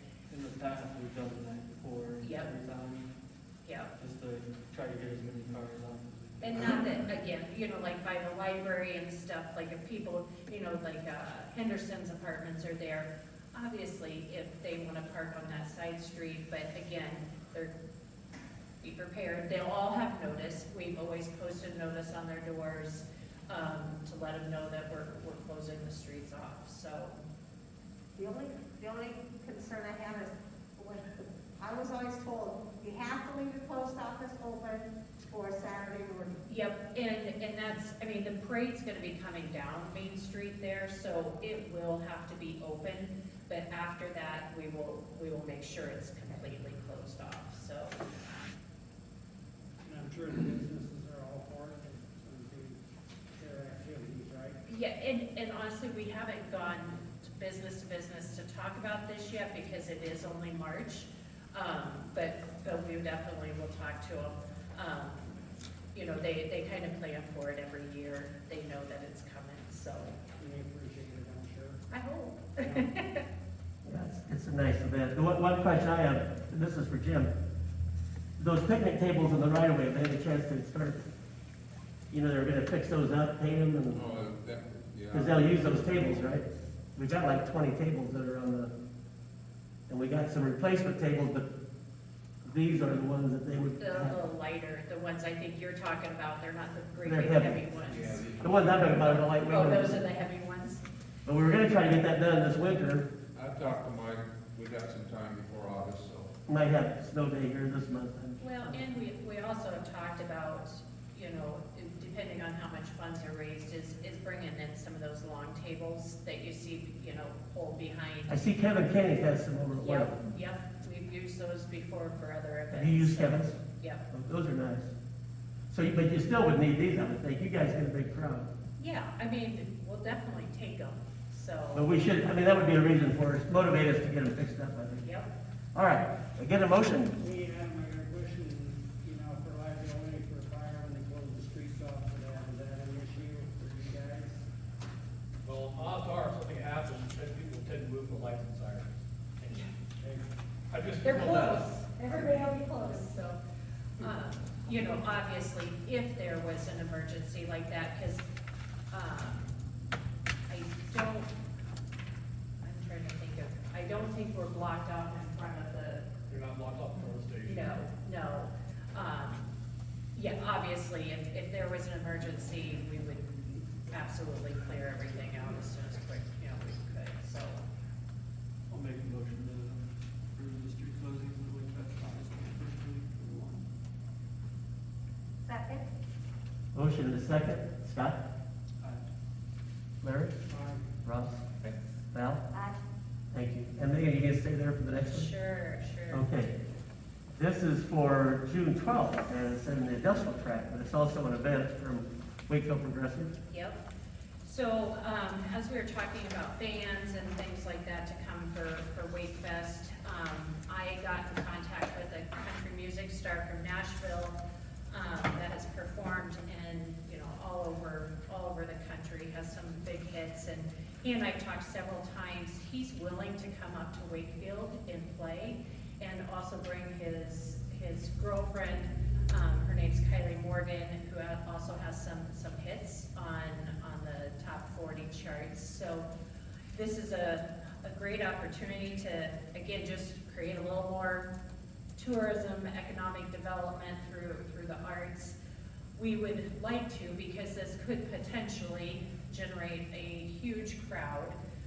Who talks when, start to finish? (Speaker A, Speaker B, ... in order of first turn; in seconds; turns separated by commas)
Speaker A: 0.3-3.1, Speaker B: 2.2-2.5, Speaker B: 3.7-3.9, Speaker A: 4.0-6.8, Speaker B: 6.4-17.7, Speaker B: 18.8-27.2, Speaker C: 28.2-31.0, Speaker C: 31.6-36.3, Speaker B: 36.5-48.0, Speaker D: 49.9-52.8, Speaker D: 53.4-54.6, Speaker B: 54.7-65.4, Speaker B: 65.9-70.2, Speaker D: 70.4-71.8, Speaker B: 71.9-73.2, Speaker D: 72.6-72.9, Speaker E: 73.8-77.3, Speaker E: 78.4-81.0, Speaker E: 82.1-84.0, Speaker F: 83.9-86.2, Speaker E: 85.1-88.7, Speaker E: 89.9-91.5, Speaker E: 92.5-94.2, Speaker B: 93.8-98.2, Speaker E: 97.0-97.6, Speaker F: 97.8-99.1, Speaker E: 98.4-100.0, Speaker B: 99.0-100.8, Speaker E: 101.3-103.1, Speaker F: 103.3-106.3, Speaker E: 106.5-108.8, Speaker B: 108.4-118.5, Speaker E: 118.3-120.1, Speaker B: 119.8-124.0, Speaker E: 122.7-123.5, Speaker E: 124.1-124.9, Speaker E: 125.7-128.5, Speaker B: 128.8-132.0, Speaker E: 131.7-135.0, Speaker B: 135.0-135.3, Speaker E: 135.8-137.1, Speaker D: 137.2-144.4, Speaker G: 145.4-149.7, Speaker D: 150.0-150.3, Speaker G: 150.7-151.7, Speaker B: 151.0-153.4, Speaker B: 154.0-158.2, Speaker B: 158.9-159.5, Speaker B: 160.5-161.3, Speaker B: 162.6-166.1, Speaker G: 166.3-167.7, Speaker B: 167.4-169.5, Speaker B: 170.2-177.6, Speaker A: 178.7-179.8, Speaker A: 180.4-183.7, Speaker C: 185.4-185.8, Speaker E: 186.7-188.2, Speaker E: 190.0-190.4, Speaker D: 190.4-190.9, Speaker E: 191.0-191.4, Speaker E: 192.1-192.4, Speaker C: 192.5-192.8, Speaker E: 193.3-195.3, Speaker B: 195.1-196.3, Speaker E: 196.1-196.5, Speaker E: 197.3-203.3, Speaker B: 203.5-203.8, Speaker B: 204.4-214.4, Speaker B: 214.9-236.1, Speaker B: 236.7-241.3, Speaker B: 242.0-245.4, Speaker B: 246.0-251.4